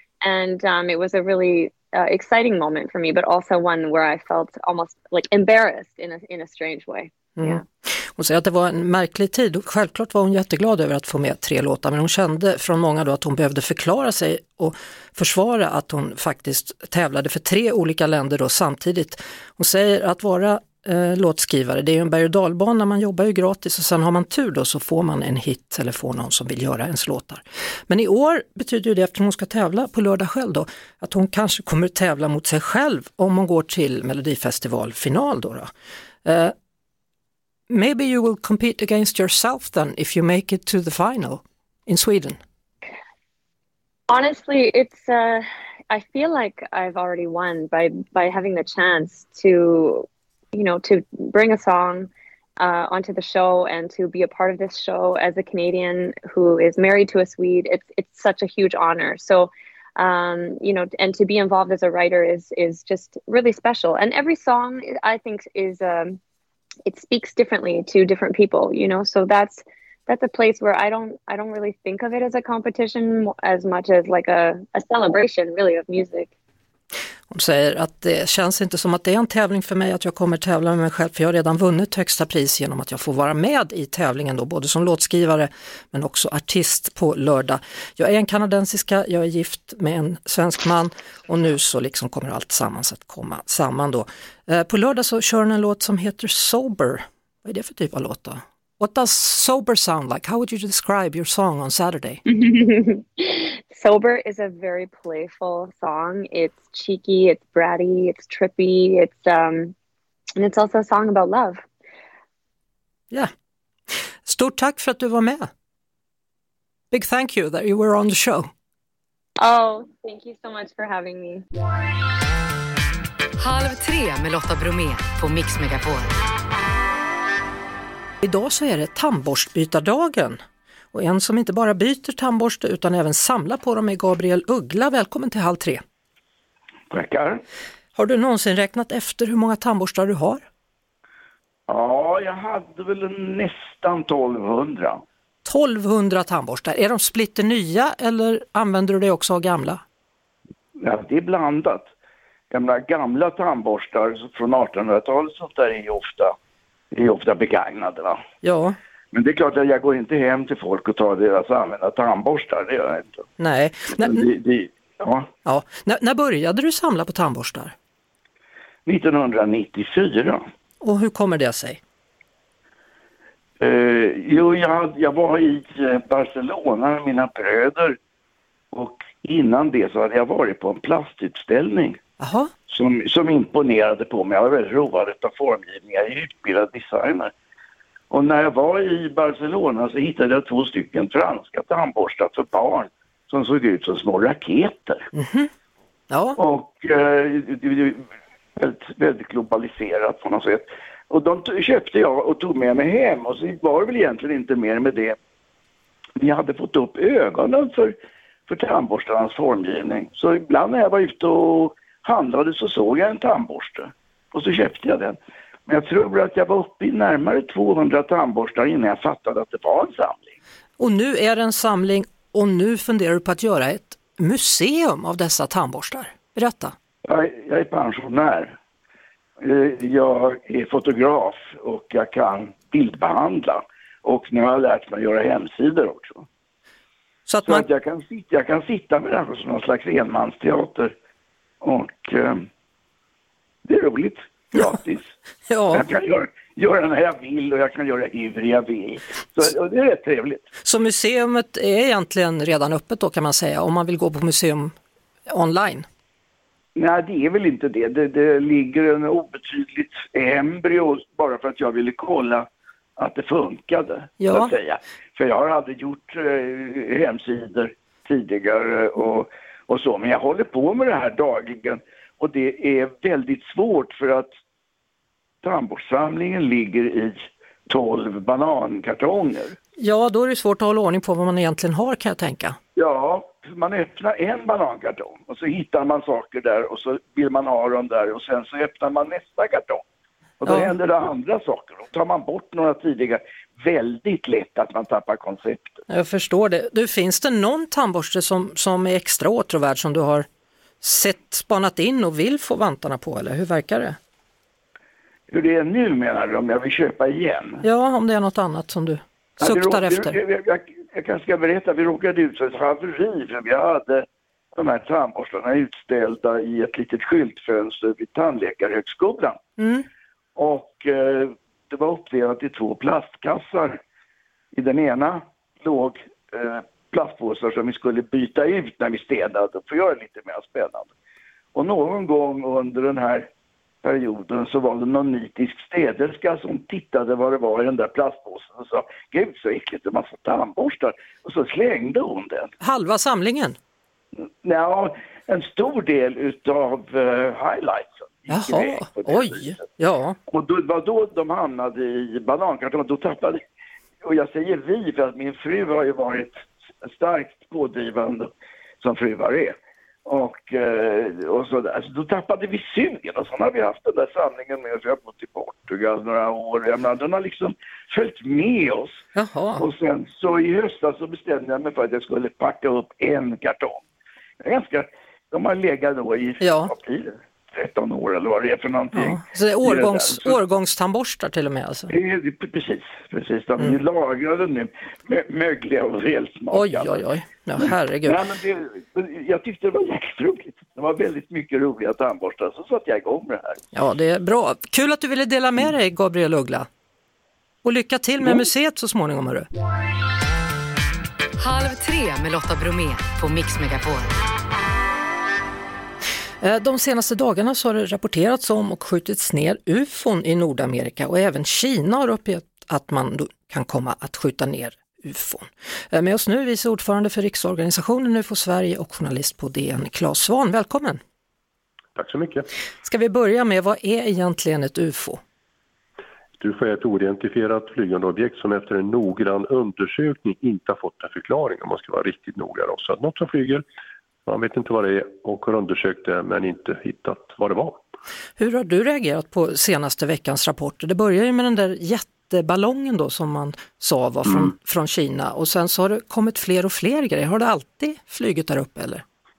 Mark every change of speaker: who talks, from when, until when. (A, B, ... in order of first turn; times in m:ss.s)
0:00.2-0:07.6 A
0:07.4-0:35.7 B
0:36.2-0:36.5 B
0:37.7-0:42.4 B
0:44.1-1:06.2 A
1:06.8-1:16.3 A
1:17.3-1:42.2 B
1:42.3-1:49.7 A
1:50.4-1:51.6 A
1:53.9-1:55.5 B
1:56.9-1:58.5 B
1:59.4-2:01.4 A
2:03.4-2:06.1 C
2:08.2-2:10.4 B
2:10.9-2:15.8 B
2:16.9-2:17.4 D
2:18.0-2:20.4 B
2:21.7-2:25.0 D
2:25.4-2:29.8 B
2:30.8-2:31.9 D
2:32.5-2:36.4 D
2:36.9-2:38.2 D
2:38.4-2:38.8 B
2:39.1-2:43.2 D
2:43.4-2:44.2 B
2:44.0-2:45.3 D
2:45.4-2:47.7 B
2:48.8-2:50.4 D
2:50.8-2:51.8 B
2:53.6-2:58.0 D
2:58.7-3:02.0 D
3:02.2-3:02.5 B
3:02.7-3:07.3 D
3:08.1-3:15.1 D
3:15.1-3:15.5 B
3:16.1-3:16.4 B
3:16.4-3:18.0 D
3:18.6-3:25.2 D
3:26.2-3:27.9 D
3:28.5-3:40.3 D
3:40.8-3:46.7 B
3:47.0-3:48.6 D
3:49.4-3:56.2 D
3:57.3-3:57.6 B
3:57.5-4:00.9 D
4:01.6-4:02.4 D
4:03.6-4:05.1 D
4:05.5-4:05.8 B
4:05.7-4:10.5 D
4:10.6-4:14.7 B
4:15.3-4:15.8 B
4:16.8-4:34.3 D
4:24.2-4:24.5 B
4:35.4-4:39.6 D
4:39.8-4:42.6 B
4:42.8-4:49.8 D
4:50.4-4:55.8 D
4:50.4-4:50.7 B
4:55.9-5:00.3 B
5:00.8-5:04.0 B
5:05.3-5:07.6 D
5:07.6-5:10.2 B
5:09.4-5:19.4 D
5:19.6-5:19.8 B
5:20.4-5:23.8 D
5:24.5-5:30.9 D
5:31.5-5:33.3 D
5:33.8-5:42.5 D
5:42.6-5:43.6 B
5:44.4-5:49.6 D
5:48.3-5:50.2 B
5:50.3-5:53.4 D
5:54.0-6:09.0 D
6:09.1-6:09.6 B
6:09.6-6:13.8 D
6:14.4-6:20.4 D
6:16.4-6:16.7 B
6:18.9-6:21.9 B
6:21.9-6:27.0 D
6:26.5-6:28.2 B
6:27.6-6:33.6 D
6:33.7-6:36.7 B
6:37.6-6:39.5 B
6:41.4-6:44.1 C
6:46.4-7:01.0 B
7:02.0-7:02.5 E
7:02.8-7:05.2 B
7:06.4-7:13.6 E
7:14.2-7:17.8 E
7:18.4-7:29.0 B